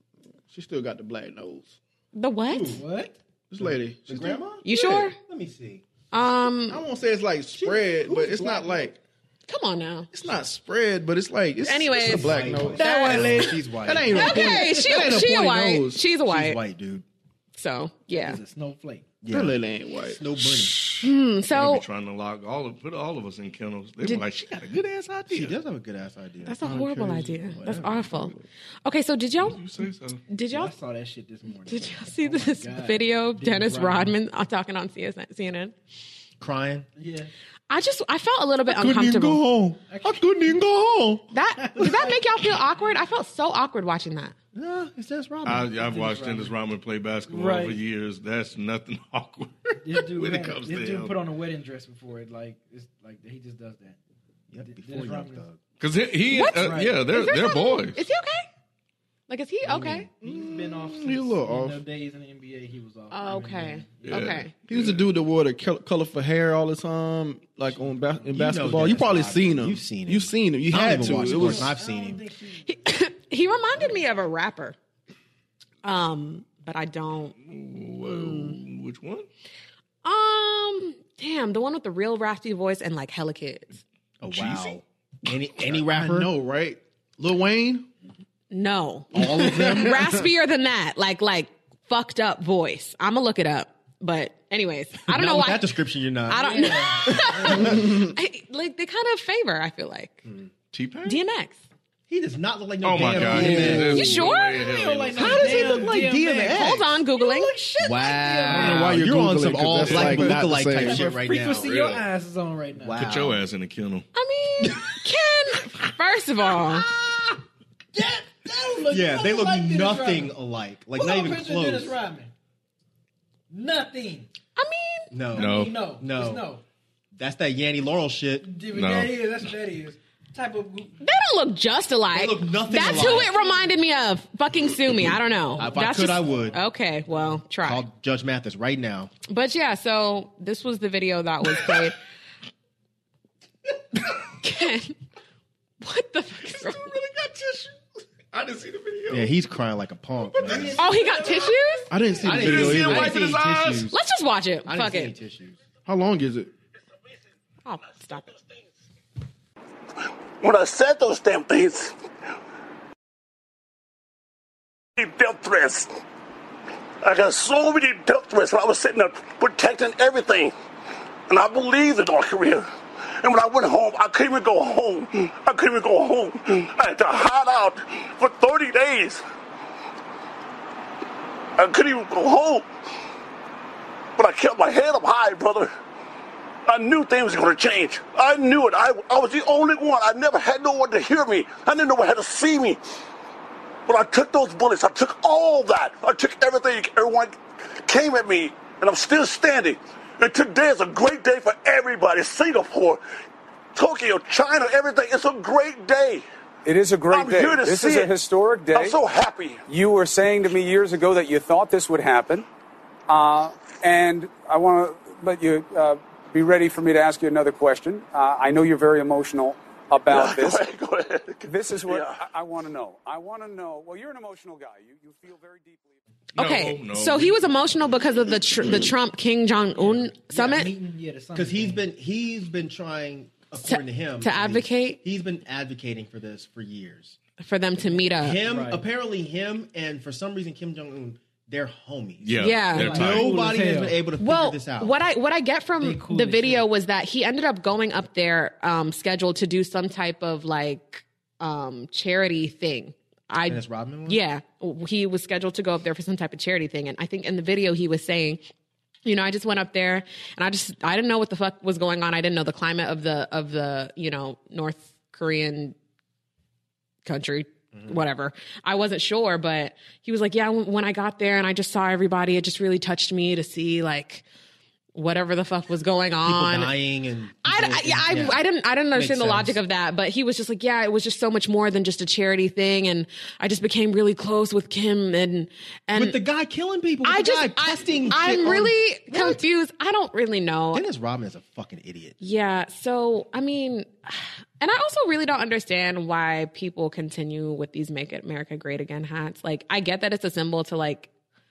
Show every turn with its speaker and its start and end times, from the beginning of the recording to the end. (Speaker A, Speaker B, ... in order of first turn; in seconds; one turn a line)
Speaker A: 0.5-1.7
Speaker B: 2.1-2.8
Speaker C: 2.5-2.9
Speaker D: 2.7-3.1
Speaker A: 3.5-4.8
Speaker C: 3.6-5.8
Speaker B: 4.6-5.1
Speaker B: 6.1-6.8
Speaker A: 6.7-9.0
Speaker C: 7.5-8.9
Speaker B: 9.5-10.1
Speaker A: 10.1-16.0
Speaker B: 11.6-13.4
Speaker C: 11.9-14.7
Speaker D: 12.7-13.6
Speaker B: 14.1-16.6
Speaker C: 16.2-17.0
Speaker B: 17.6-18.4
Speaker D: 18.1-19.1
Speaker C: 19.2-20.9
Speaker A: 19.3-20.2
Speaker E: 20.4-25.5
Speaker B: 21.0-21.8
Speaker C: 25.3-28.2
Speaker B: 26.4-29.6
Speaker A: 28.0-28.4
Speaker E: 29.4-30.2
Speaker B: 30.3-30.7
Speaker D: 30.5-34.1
Speaker B: 31.7-35.7
Speaker C: 36.4-36.9
Speaker D: 37.0-37.3
Speaker B: 37.7-39.4
Speaker C: 38.7-41.2
Speaker D: 39.9-40.2
Speaker B: 41.3-44.3
Speaker D: 41.6-42.2
Speaker C: 44.5-45.7
Speaker E: 45.4-51.2
Speaker D: 45.8-46.5
Speaker D: 47.3-47.8
Speaker D: 49.8-54.0
Speaker C: 54.5-55.6
Speaker D: 54.6-55.4
Speaker E: 55.8-58.0
Speaker B: 56.3-58.5
Speaker D: 56.6-57.1
Speaker B: 59.3-60.1
Speaker C: 59.7-60.1
Speaker D: 60.2-64.4
Speaker A: 60.2-61.8
Speaker B: 63.1-64.5
Speaker E: 64.0-65.1
Speaker A: 64.7-71.7
Speaker D: 67.7-68.3
Speaker C: 68.3-72.2
Speaker D: 70.9-72.9
Speaker B: 72.7-74.8
Speaker D: 73.5-74.0
Speaker B: 75.8-77.3
Speaker E: 77.4-79.3
Speaker B: 78.0-78.6
Speaker B: 80.0-83.8
Speaker C: 84.2-86.3
Speaker E: 84.2-84.8
Speaker A: 85.7-87.9
Speaker B: 88.5-95.7
Speaker C: 89.1-90.2
Speaker A: 89.2-89.9
Speaker C: 95.1-97.8
Speaker B: 96.3-100.2
Speaker D: 96.3-97.8
Speaker E: 100.7-101.2
Speaker B: 101.0-101.6
Speaker C: 102.1-104.1
Speaker E: 102.8-105.7
Speaker A: 103.2-104.2
Speaker D: 103.5-108.8
Speaker B: 103.9-104.7
Speaker C: 105.2-106.9
Speaker B: 105.2-105.8
Speaker B: 106.4-108.2
Speaker C: 107.8-111.7
Speaker A: 108.5-111.1
Speaker E: 109.8-110.3
Speaker D: 110.1-113.0
Speaker E: 111.5-112.0
Speaker C: 112.8-113.4
Speaker E: 113.0-114.0
Speaker B: 114.1-116.9
Speaker D: 117.0-117.3
Speaker D: 117.9-120.3
Speaker C: 118.9-122.0
Speaker D: 120.9-122.3
Speaker D: 123.5-124.3
Speaker B: 124.5-125.1
Speaker C: 125.1-126.5
Speaker D: 125.3-126.6
Speaker E: 125.3-125.8
Speaker C: 127.1-128.5
Speaker D: 128.4-131.0
Speaker E: 128.7-129.2
Speaker B: 131.0-137.8
Speaker C: 132.1-133.3
Speaker D: 132.6-133.7
Speaker D: 135.5-136.6
Speaker C: 135.6-136.6
Speaker C: 137.6-139.1
Speaker B: 139.3-141.9
Speaker B: 144.4-144.9
Speaker B: 145.8-146.9
Speaker E: 146.6-149.3
Speaker C: 149.1-150.8
Speaker E: 150.2-150.8
Speaker D: 150.4-151.6
Speaker B: 150.8-151.9
Speaker A: 151.9-153.2
Speaker C: 152.2-154.0
Speaker E: 152.2-153.9
Speaker B: 153.9-155.1
Speaker C: 154.7-155.6
Speaker A: 155.8-156.5
Speaker B: 157.6-158.3
Speaker F: 160.4-161.9
Speaker F: 165.0-165.9
Speaker F: 167.0-170.5
Speaker F: 171.3-172.7
Speaker F: 173.2-179.2
Speaker F: 181.6-182.6
Speaker F: 184.2-185.7
Speaker F: 186.7-192.8
Speaker F: 193.8-203.0
Speaker F: 203.7-206.2
Speaker G: 206.7-208.9
Speaker F: 207.1-208.1
Speaker F: 208.7-209.6
Speaker G: 209.7-212.4
Speaker G: 213.1-220.6
Speaker F: 220.1-222.2
Speaker G: 221.4-225.9
Speaker B: 226.3-230.7
Speaker E: 226.4-227.6
Speaker D: 229.8-231.8
Speaker C: 231.3-237.2
Speaker B: 233.6-235.0
Speaker B: 237.4-238.4
Speaker C: 238.1-244.9
Speaker D: 238.4-238.9
Speaker E: 242.2-243.5
Speaker B: 242.4-243.0
Speaker D: 242.8-244.0
Speaker B: 244.2-258.4
Speaker D: 245.8-246.7
Speaker C: 253.5-254.2
Speaker B: 259.0-265.7
Speaker B: 267.0-274.2
Speaker C: 267.7-268.0
Speaker B: 274.9-276.7
Speaker C: 276.2-278.4
Speaker B: 277.4-286.2
Speaker C: 278.9-279.6
Speaker C: 285.9-289.4
Speaker B: 287.0-290.8
Speaker C: 290.7-292.1
Speaker B: 292.2-301.1